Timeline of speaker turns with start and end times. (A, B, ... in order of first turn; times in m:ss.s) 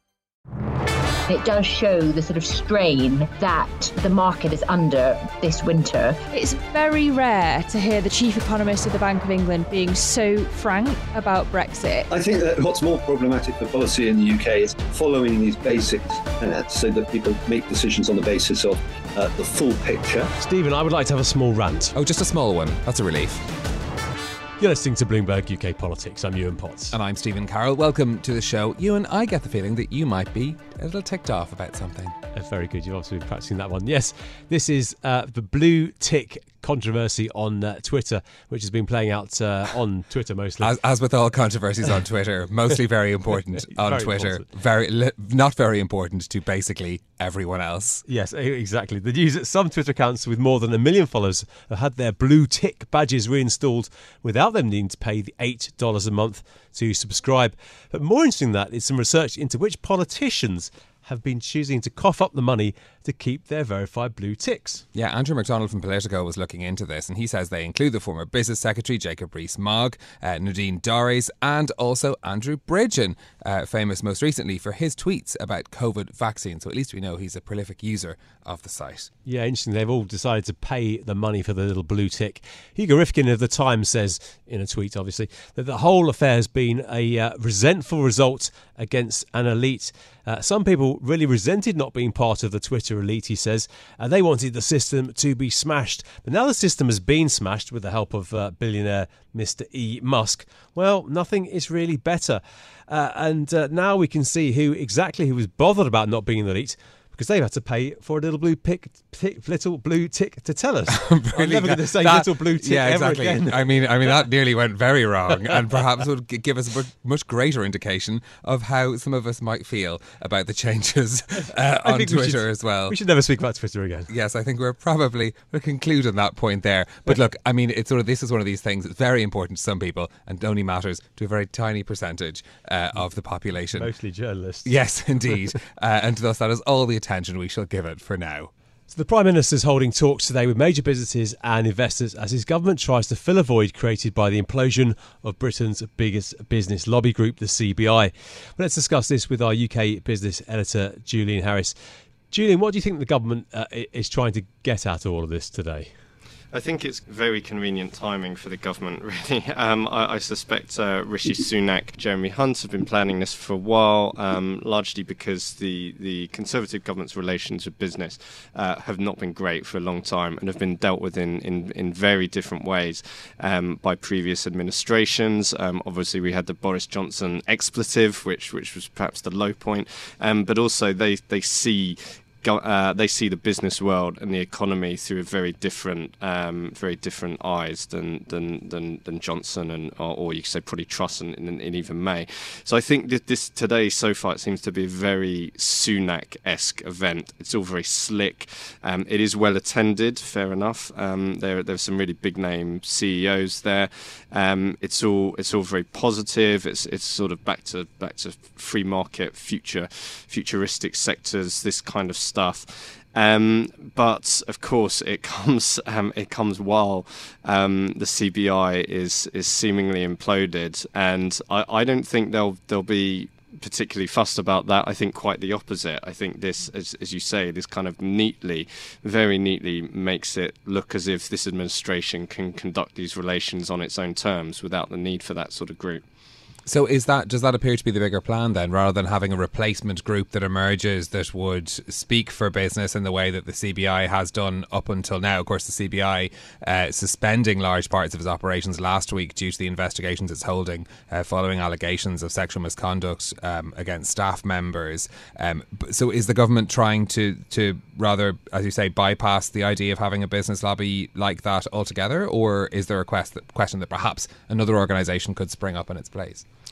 0:01.3-0:06.2 A
0:06.3-0:12.1 B
0:12.1-0:20.3 C
0:20.4-0:22.0 D
0:22.0-0:23.5 E
0:24.6-0:27.0 D
0:26.9-0:32.2 E
0:32.4-0:40.7 D
0:40.6-0:48.0 E
0:43.6-0:44.5 D
0:48.1-1:04.8 D
1:04.9-1:19.1 E
1:19.2-1:54.2 D
1:50.9-2:03.0 E
2:01.5-2:04.1 D
2:04.1-2:13.9 E
2:13.7-2:14.8 D
2:14.6-2:18.5 E
2:18.9-2:31.8 D
2:32.3-2:35.9 D
2:36.5-3:56.0 F
3:56.7-4:26.4 E